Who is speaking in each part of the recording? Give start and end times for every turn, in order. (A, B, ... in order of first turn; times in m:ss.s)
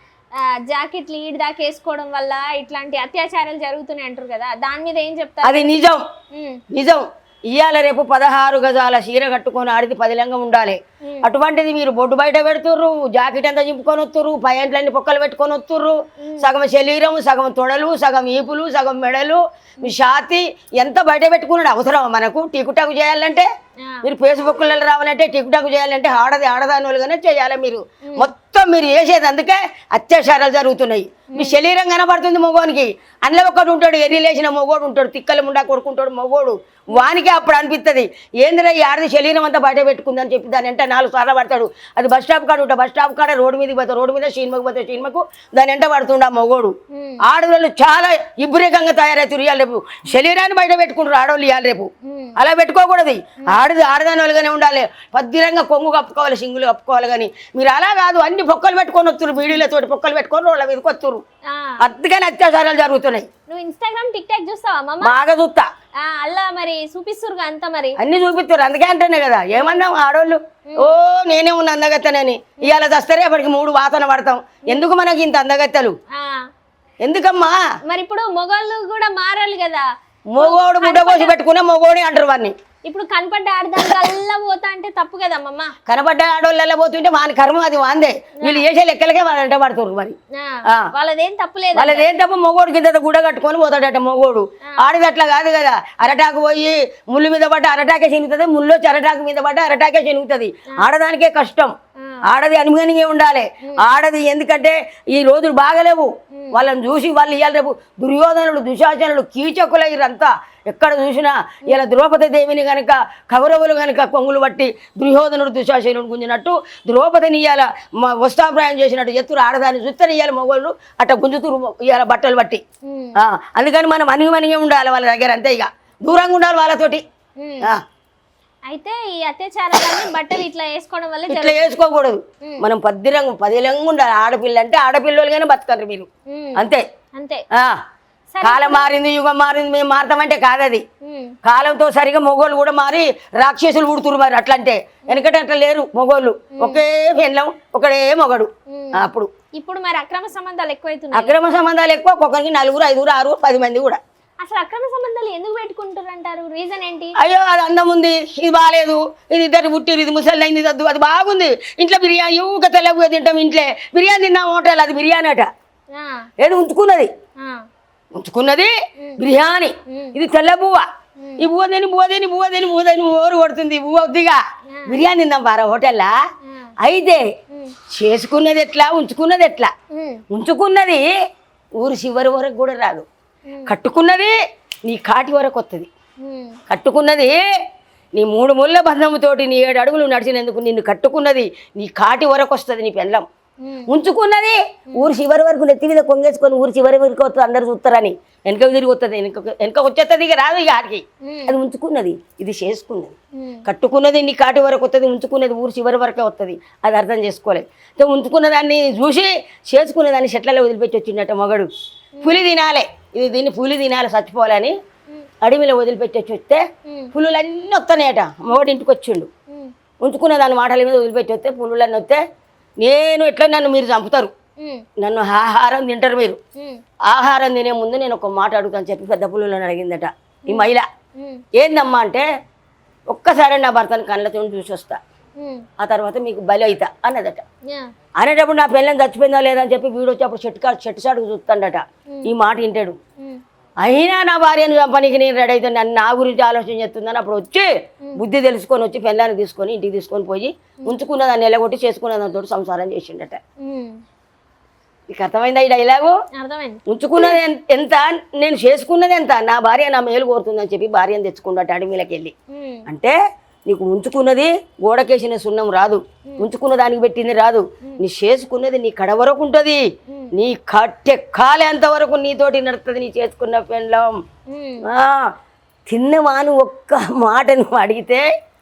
0:00.4-0:05.8 A
0:05.4-0:06.0 B
0:06.3-0:06.6 A
0:06.7-0:23.5 B
0:23.8-0:24.1 A
0:24.0-1:01.2 B
0:46.9-0:47.2 A
0:52.0-0:52.3 A
1:01.5-1:01.8 A
1:01.8-1:03.3 B
1:03.5-1:05.2 A
1:05.0-1:05.7 B
1:06.0-1:08.0 A
1:08.0-1:16.0 B
1:09.6-1:09.8 A
1:16.1-1:16.4 A
1:17.0-1:17.6 B
1:17.9-1:19.8 A
1:20.3-1:22.5 B
1:20.4-1:21.4 A
1:22.9-1:25.7 A
1:25.8-1:30.2 B
1:30.3-1:32.1 A
1:31.7-1:41.7 B
1:42.2-2:02.6 B
2:02.9-2:03.1 A
2:03.2-2:07.0 B
2:07.4-2:07.7 A
2:08.7-2:11.7 A
2:11.3-2:16.8 B
2:16.3-2:17.4 A
2:18.3-2:19.0 A
2:18.4-2:20.8 B
2:21.0-2:21.3 A
2:21.4-2:29.3 B
2:26.6-2:26.8 A
2:28.7-2:31.3 A
2:31.1-2:34.0 B
2:34.4-2:37.1 A
2:37.2-2:45.5 B
2:45.9-2:46.2 A
2:46.4-2:47.1 B
2:48.2-2:50.8 B
2:49.9-2:50.2 A
2:51.2-2:51.5 A
2:51.4-2:56.1 B
2:54.7-2:55.0 A
2:56.4-2:56.7 A
2:56.8-2:57.2 B
2:57.9-2:59.7 B
2:59.9-3:00.2 A
3:00.3-3:01.1 B
3:01.8-3:03.1 B
3:03.5-3:03.7 A
3:03.7-3:04.3 B
3:04.9-3:05.9 B
3:06.2-3:06.6 A
3:06.7-3:07.4 B
3:08.2-3:13.2 B
3:13.6-3:13.9 A
3:13.9-3:31.7 B
3:21.2-3:21.6 A
3:23.4-3:23.6 A
3:32.2-3:32.4 A
3:32.2-3:34.8 B
3:35.4-3:39.3 B
3:36.9-3:37.1 A
3:40.0-3:42.2 B
3:42.8-3:44.3 B
3:44.6-3:44.8 A
3:45.0-3:46.4 B
3:47.1-3:50.8 B
3:50.5-3:51.4 A
3:51.6-3:52.3 B
3:53.1-3:55.0 B
3:55.4-3:55.6 A
3:55.8-3:57.4 B
3:58.2-4:03.0 B
4:03.8-4:13.4 B
4:13.6-4:14.0 A
4:15.1-4:16.2 B
4:16.3-4:17.4 A
4:16.9-4:22.3 B
4:22.5-4:22.8 A
4:22.8-4:23.2 B
4:23.7-4:29.8 B
4:30.3-4:34.1 B
4:34.5-4:34.8 A
4:34.8-4:35.3 B
4:35.9-4:38.2 B